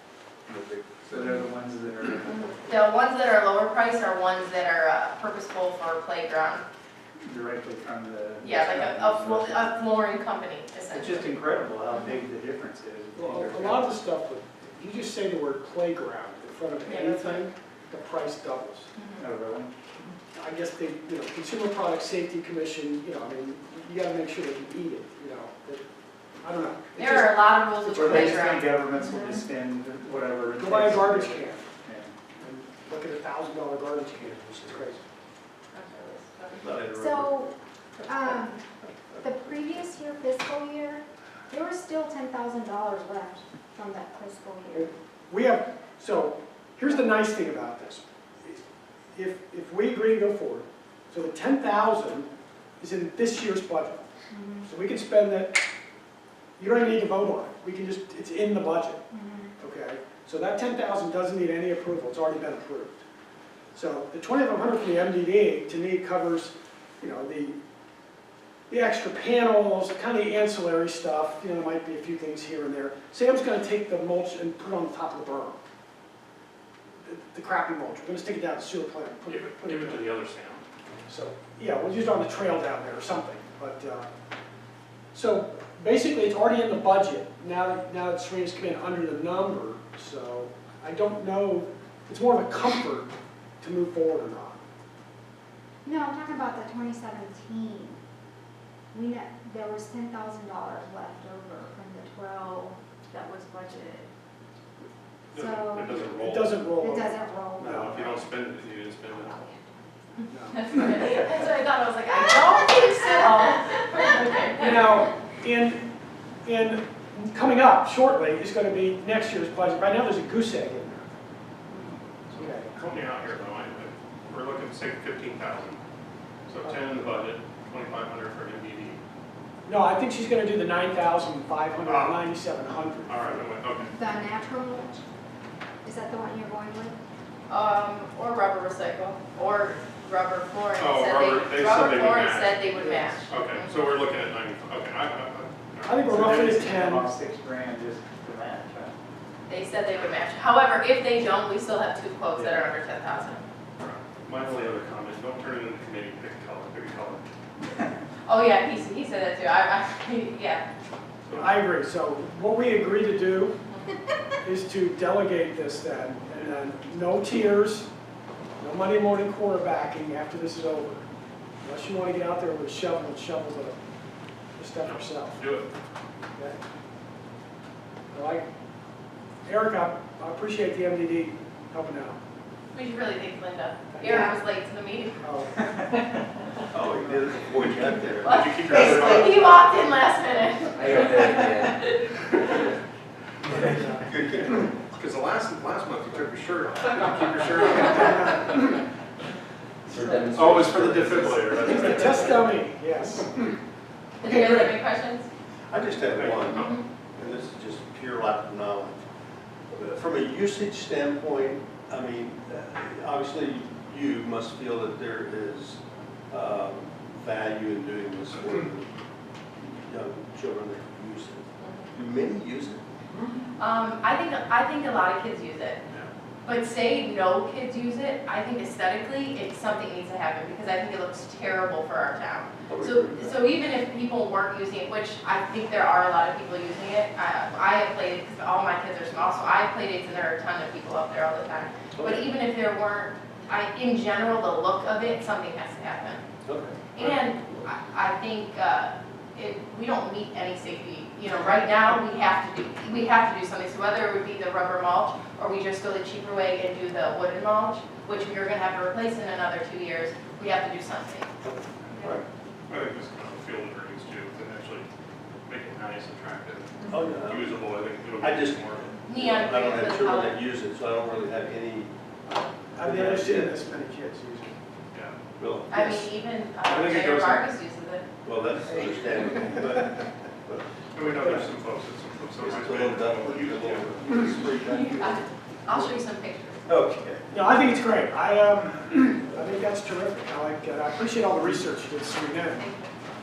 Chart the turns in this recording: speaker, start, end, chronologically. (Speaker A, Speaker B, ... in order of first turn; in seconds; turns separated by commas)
Speaker A: 0.5-1.0, Speaker B: 1.0-2.6, Speaker C: 2.6-6.7, Speaker B: 7.2-9.8, Speaker C: 8.4-11.3, Speaker B: 10.9-13.9, Speaker D: 13.2-18.9, Speaker C: 16.9-17.5, Speaker C: 19.0-19.3, Speaker B: 19.2-20.1, Speaker D: 20.3-25.8, Speaker D: 26.4-27.3, Speaker C: 27.0-28.7, Speaker B: 27.8-32.2, Speaker D: 28.0-28.4, Speaker E: 29.0-29.5, Speaker D: 30.6-31.7, Speaker D: 32.4-35.0, Speaker A: 34.2-34.8, Speaker C: 35.7-36.7, Speaker A: 36.6-37.5, Speaker E: 36.7-37.5, Speaker E: 38.0-38.6, Speaker E: 39.2-44.9, Speaker D: 44.7-48.6, Speaker D: 49.1-52.3, Speaker D: 52.8-54.0, Speaker E: 54.3-54.7, Speaker D: 54.6-55.6, Speaker D: 56.6-59.0, Speaker E: 59.1-59.5, Speaker D: 59.6-63.0, Speaker D: 63.8-67.6, Speaker D: 68.7-75.6, Speaker D: 77.0-80.1, Speaker F: 79.3-80.6, Speaker D: 81.1-84.1, Speaker D: 85.1-94.6, Speaker E: 95.8-98.0, Speaker E: 98.9-104.1, Speaker F: 105.3-106.6, Speaker E: 105.3-106.0, Speaker D: 106.0-108.0, Speaker E: 106.8-107.8, Speaker F: 107.6-109.5, Speaker E: 109.1-109.6, Speaker D: 110.3-110.8, Speaker C: 110.5-115.0, Speaker D: 114.1-115.9, Speaker D: 116.5-121.1, Speaker D: 122.3-122.8, Speaker F: 122.7-125.8, Speaker F: 126.5-129.0, Speaker D: 129.7-133.4, Speaker F: 131.8-132.3, Speaker F: 133.1-133.9, Speaker E: 133.9-135.0, Speaker E: 135.8-137.0, Speaker C: 137.5-143.7, Speaker F: 140.8-142.7, Speaker D: 142.8-143.2, Speaker F: 143.3-146.6, Speaker D: 145.9-147.1, Speaker B: 146.1-148.9, Speaker C: 149.5-153.4, Speaker B: 152.3-152.7, Speaker F: 153.8-157.2, Speaker C: 158.3-160.6, Speaker F: 161.3-161.6, Speaker D: 161.3-163.6, Speaker D: 164.4-167.9, Speaker D: 168.6-171.1, Speaker D: 171.6-173.8, Speaker D: 174.6-175.4, Speaker F: 174.8-175.7, Speaker D: 178.1-178.5, Speaker D: 179.4-182.2, Speaker C: 182.7-185.2, Speaker D: 183.9-184.3, Speaker D: 185.2-185.6, Speaker A: 186.7-189.2, Speaker D: 186.9-187.2, Speaker C: 188.2-192.1, Speaker F: 188.2-189.6, Speaker A: 190.8-191.7, Speaker D: 193.6-194.1, Speaker A: 193.6-194.7, Speaker F: 194.9-198.7, Speaker D: 197.8-198.5, Speaker A: 199.9-202.2, Speaker F: 200.3-202.5, Speaker D: 201.6-203.5, Speaker C: 204.2-205.3, Speaker D: 204.2-204.8, Speaker A: 205.7-209.1, Speaker F: 206.0-206.8, Speaker C: 206.5-206.8, Speaker A: 209.7-218.9, Speaker F: 218.4-218.7, Speaker A: 219.6-222.8, Speaker C: 221.6-221.9, Speaker C: 223.6-225.8, Speaker C: 226.4-246.2, Speaker A: 232.7-233.4, Speaker A: 242.0-242.2, Speaker A: 246.4-247.2, Speaker C: 246.9-261.3, Speaker A: 261.4-262.2, Speaker F: 262.7-264.9, Speaker F: 265.4-269.0, Speaker A: 266.9-271.9, Speaker C: 269.1-270.4, Speaker D: 272.3-274.6, Speaker A: 272.8-273.6, Speaker A: 275.4-276.1, Speaker C: 275.7-278.1, Speaker F: 276.6-277.4, Speaker A: 278.2-280.6, Speaker D: 278.7-279.8, Speaker F: 280.9-284.4, Speaker D: 281.2-281.5, Speaker A: 282.4-285.9, Speaker C: 284.7-286.6, Speaker A: 286.7-287.2, Speaker D: 287.3-292.7, Speaker C: 292.6-292.9